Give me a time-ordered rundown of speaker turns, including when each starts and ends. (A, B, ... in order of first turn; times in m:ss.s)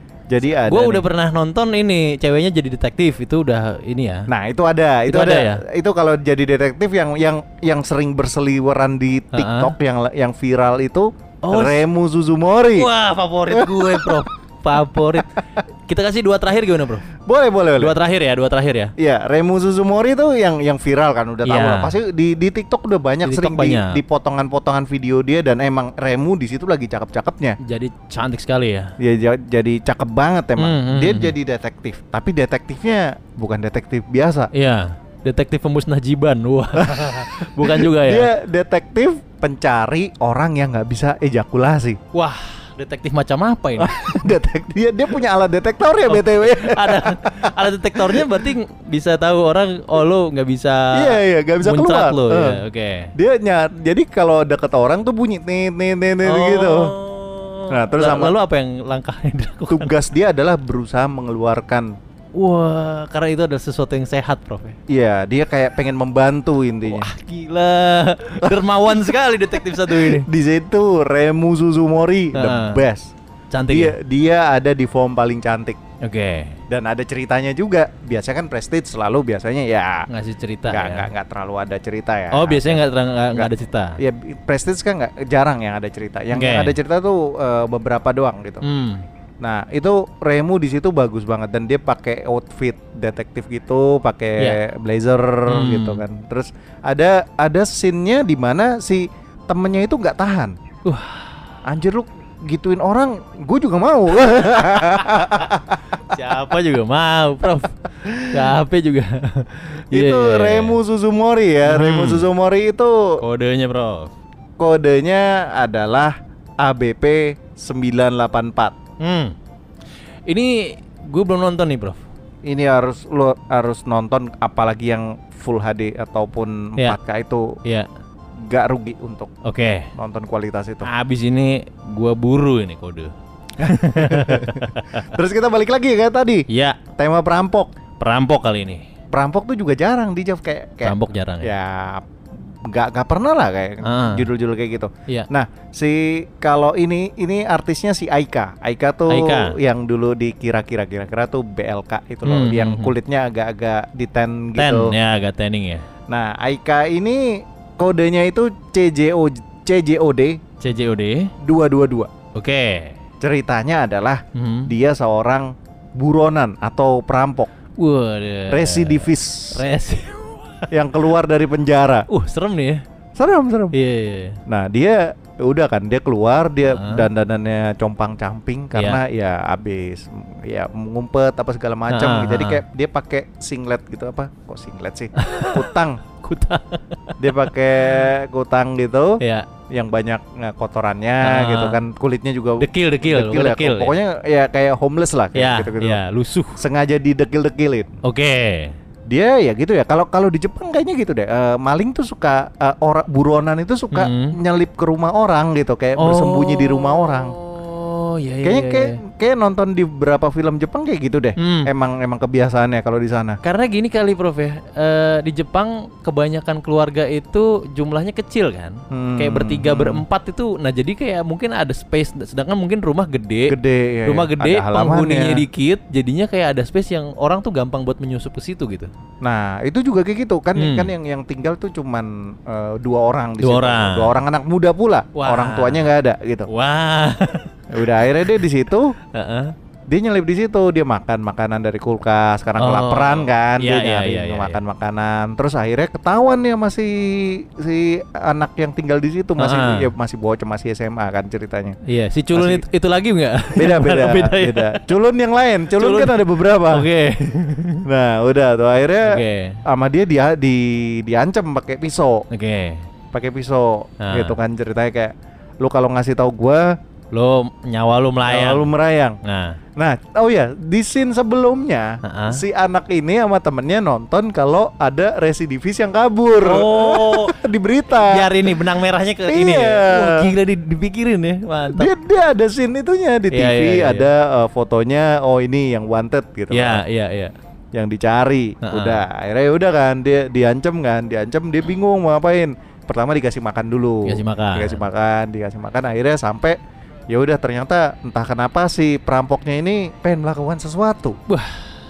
0:00.3-0:01.0 A
0:00.6-0:04.3 B
0:04.3-0:12.9 A
0:05.1-0:05.6 B
0:09.3-0:09.7 B
0:11.4-0:11.8 B
0:12.7-0:17.1 B
0:13.5-0:14.2 A
0:17.2-0:18.0 A
0:17.8-0:18.9 B
0:19.0-0:27.6 A
0:21.4-0:22.0 B
0:23.2-0:24.0 B
0:27.6-0:28.9 B
0:29.0-0:34.5 A
0:30.6-0:31.3 B
0:34.5-0:38.3 B
0:36.8-0:42.0 A
0:42.1-0:44.3 B
0:43.8-0:48.5 A
0:46.1-0:53.1 B
0:50.9-0:52.6 A
0:53.1-0:56.9 A
0:56.2-0:59.9 B
0:57.7-0:58.3 A
0:59.7-1:01.9 A
1:02.3-1:04.8 B
1:04.9-1:07.1 A
1:06.8-1:10.3 B
1:08.4-1:13.1 A
1:12.3-1:12.8 B
1:13.5-1:13.9 B
1:13.7-1:15.8 A
1:16.0-1:16.6 B
1:16.7-1:20.1 A
1:20.1-1:21.1 B
1:20.7-1:22.8 A
1:22.3-1:24.0 B
1:23.3-1:28.6 A
1:26.3-1:26.8 B
1:28.6-1:29.0 B
1:29.4-1:40.5 A
1:35.5-1:36.0 B
1:40.8-1:41.3 B
1:41.6-1:45.8 A
1:44.9-1:45.5 B
1:46.0-1:50.8 B
1:49.9-1:53.2 A
1:51.6-1:52.3 B
1:53.2-1:54.1 B
1:54.6-1:58.8 A
1:59.0-1:59.4 B
2:00.3-2:02.0 B
2:02.4-2:07.6 A
2:08.4-2:09.3 A
2:09.4-2:09.9 B
2:09.9-2:10.9 A
2:10.8-2:15.1 B
2:13.6-2:17.7 A
2:16.5-2:16.8 B
2:18.0-2:18.8 B
2:19.1-2:22.1 A
2:20.8-2:21.5 B
2:22.6-2:34.9 A
2:23.8-2:24.2 B
2:29.1-2:29.6 B
2:32.2-2:33.0 B
2:34.6-2:35.8 B
2:36.1-2:40.4 A
2:40.6-2:41.3 B
2:41.4-2:42.1 A
2:42.3-2:43.0 B
2:43.2-2:47.5 A
2:44.3-2:44.7 B
2:47.8-2:50.7 B
2:48.5-2:49.6 A
2:50.7-2:52.1 A
2:52.1-2:52.8 B
2:53.2-2:53.7 A
2:53.7-2:54.4 B
2:54.5-3:06.0 A
2:56.7-2:57.0 B
2:58.7-2:59.0 B
3:01.9-3:02.6 B
3:05.2-3:05.6 B
3:06.2-3:07.4 B
3:07.2-3:16.0 A
3:09.2-3:09.5 B
3:11.2-3:11.8 B
3:12.6-3:14.0 B
3:15.3-3:16.6 B
3:16.6-3:17.9 A
3:18.0-3:18.8 B
3:19.1-3:27.3 A
3:23.9-3:24.4 B
3:26.0-3:29.0 B
3:28.4-3:33.4 A
3:31.4-3:31.7 B
3:33.4-3:48.9 B
3:38.9-3:40.0 A
3:43.5-3:45.4 A
3:49.2-3:56.5 A
3:50.6-3:50.9 B
3:53.4-3:54.2 B
3:55.1-3:55.9 B
3:56.5-3:58.4 B
3:57.7-3:58.9 A
3:59.1-3:59.5 B
3:59.9-4:11.8 A
4:02.6-4:04.6 B
4:09.4-4:09.9 B
4:11.8-4:14.8 B
4:12.3-4:12.6 A
4:13.6-4:16.9 A
4:15.7-4:16.2 B
4:16.7-4:17.8 B
4:17.8-4:22.2 A
4:19.0-4:19.6 B
4:22.3-4:22.9 B
4:23.1-4:26.8 A
4:24.0-4:24.4 B
4:27.1-4:28.7 B
4:28.3-4:29.2 A
4:29.2-4:29.6 B
4:29.8-4:38.5 A
4:32.0-4:32.4 B
4:36.4-4:37.4 B
4:37.9-4:41.9 B
4:39.3-4:40.3 A
4:41.7-4:46.8 A
4:43.3-4:44.1 B
4:46.5-4:47.3 B
4:47.7-4:56.6 A
4:48.6-4:49.0 B
4:54.0-4:54.8 B
4:57.1-5:01.2 A
5:01.3-5:01.7 B